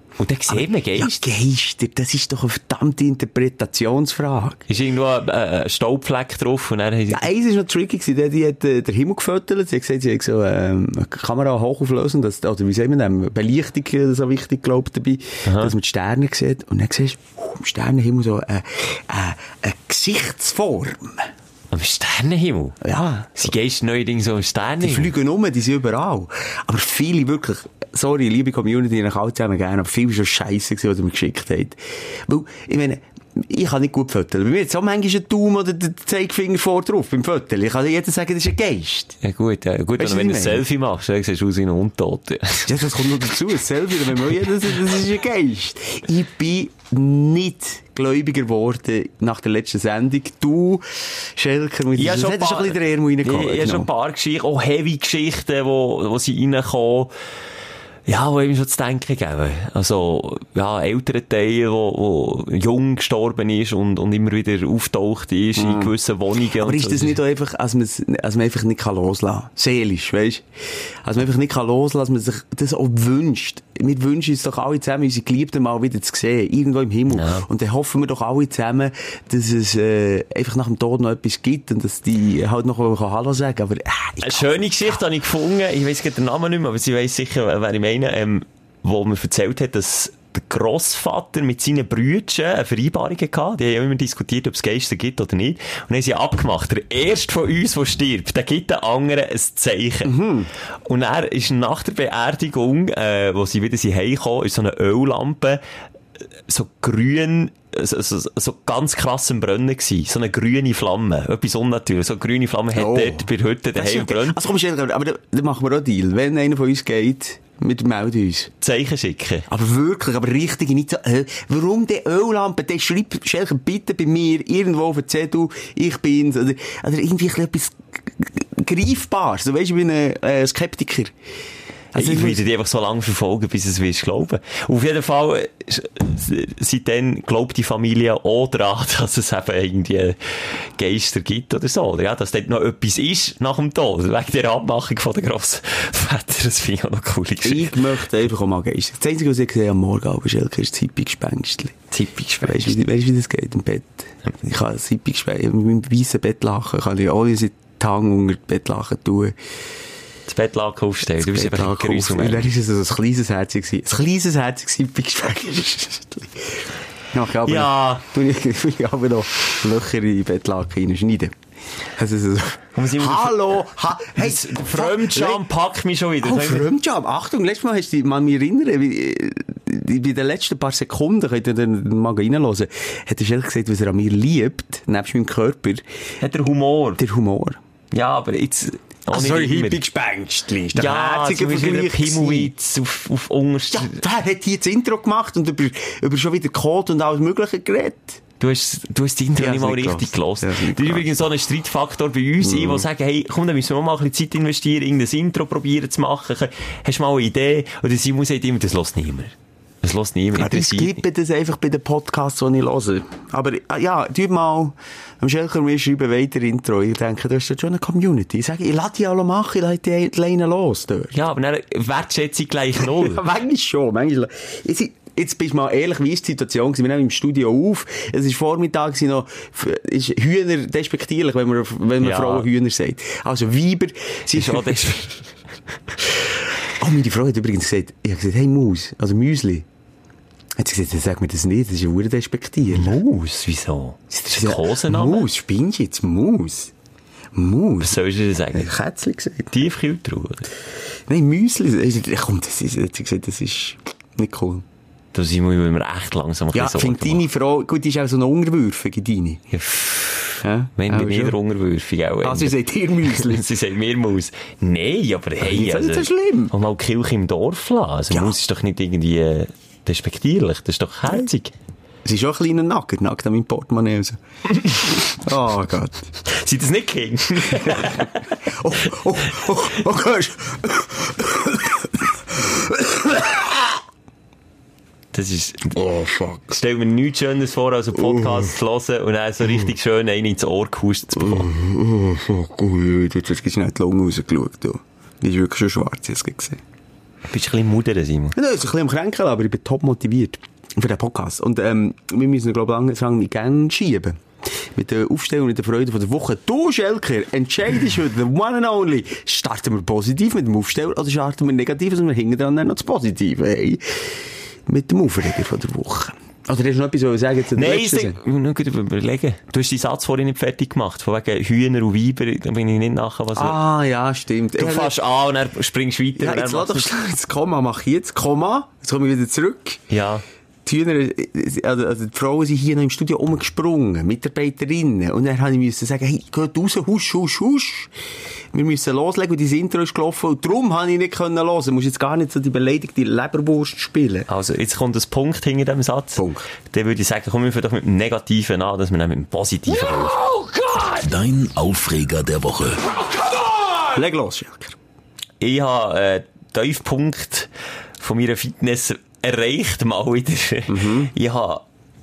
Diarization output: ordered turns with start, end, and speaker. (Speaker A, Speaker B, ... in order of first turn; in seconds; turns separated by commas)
Speaker A: 0.2-1.2, Speaker B: 0.5-4.6, Speaker A: 4.7-7.3, Speaker B: 7.1-21.3, Speaker A: 15.4-15.7, Speaker A: 21.7-22.8, Speaker B: 22.8-23.5, Speaker A: 23.4-25.1, Speaker B: 24.8-39.2, Speaker A: 39.2-42.7, Speaker B: 40.0-40.6, Speaker B: 42.6-53.9, Speaker A: 51.9-57.1, Speaker A: 58.1-67.2, Speaker B: 65.6-65.9, Speaker B: 66.6-70.5, Speaker B: 71.0-85.0, Speaker A: 77.1-77.5, Speaker A: 84.2-100.2, Speaker B: 100.0-100.5, Speaker A: 100.8-105.6, Speaker A: 106.5-114.4, Speaker B: 112.7-118.5, Speaker A: 118.6-119.5, Speaker B: 119.5-131.1, Speaker B: 131.9-132.4, Speaker A: 131.9-147.9, Speaker B: 147.4-151.8, Speaker A: 151.9-152.8, Speaker B: 152.4-159.4, Speaker A: 160.3-162.5, Speaker B: 161.1-171.4, Speaker A: 167.4-168.0, Speaker B: 171.9-175.4, Speaker A: 172.7-173.5, Speaker A: 174.2-176.7, Speaker B: 176.2-185.8, Speaker A: 186.2-187.0, Speaker B: 187.0-187.6, Speaker A: 187.9-189.8, Speaker B: 189.1-192.5, Speaker A: 190.7-194.0, Speaker B: 193.7-198.2, Speaker A: 198.4-211.0, Speaker B: 199.4-201.1, Speaker B: 202.4-202.9, Speaker B: 210.3-221.2, Speaker A: 221.1-223.2, Speaker B: 222.8-234.8, Speaker A: 232.0-232.5, Speaker A: 234.3-235.3, Speaker B: 236.7-239.7, Speaker B: 240.6-243.0, Speaker A: 242.7-245.3, Speaker B: 244.1-246.7, Speaker B: 247.3-248.0, Speaker A: 247.8-248.7, Speaker B: 248.5-249.6, Speaker A: 249.5-250.5, Speaker B: 251.1-254.6, Speaker A: 255.1-257.2, Speaker B: 256.5-259.4, Speaker A: 259.5-271.5, Speaker B: 260.4-261.4, Speaker B: 262.2-263.5, Speaker B: 265.4-266.5, Speaker B: 268.1-268.4, Speaker B: 272.0-274.2, Speaker A: 274.6-274.9, Speaker B: 274.7-276.1, Speaker A: 276.2-278.4, Speaker B: 277.6-283.8, Speaker A: 285.1-285.8, Speaker B: 285.7-286.5, Speaker A: 286.5-291.5, Speaker B: 287.9-288.5, Speaker B: 291.1-296.6, Speaker A: 297.3-298.3, Speaker B: 298.3-318.2, Speaker A: 317.5-323.6, Speaker B: 323.3-325.0, Speaker A: 324.6-326.9, Speaker B: 326.1-329.8, Speaker A: 329.9-330.2, Speaker B: 330.6-337.9, Speaker B: 338.5-344.3, Speaker A: 344.3-350.3, Speaker B: 346.2-346.4, Speaker C: 350.8-353.0, Speaker B: 353.8-354.8, Speaker A: 355.4-361.6, Speaker B: 360.7-361.1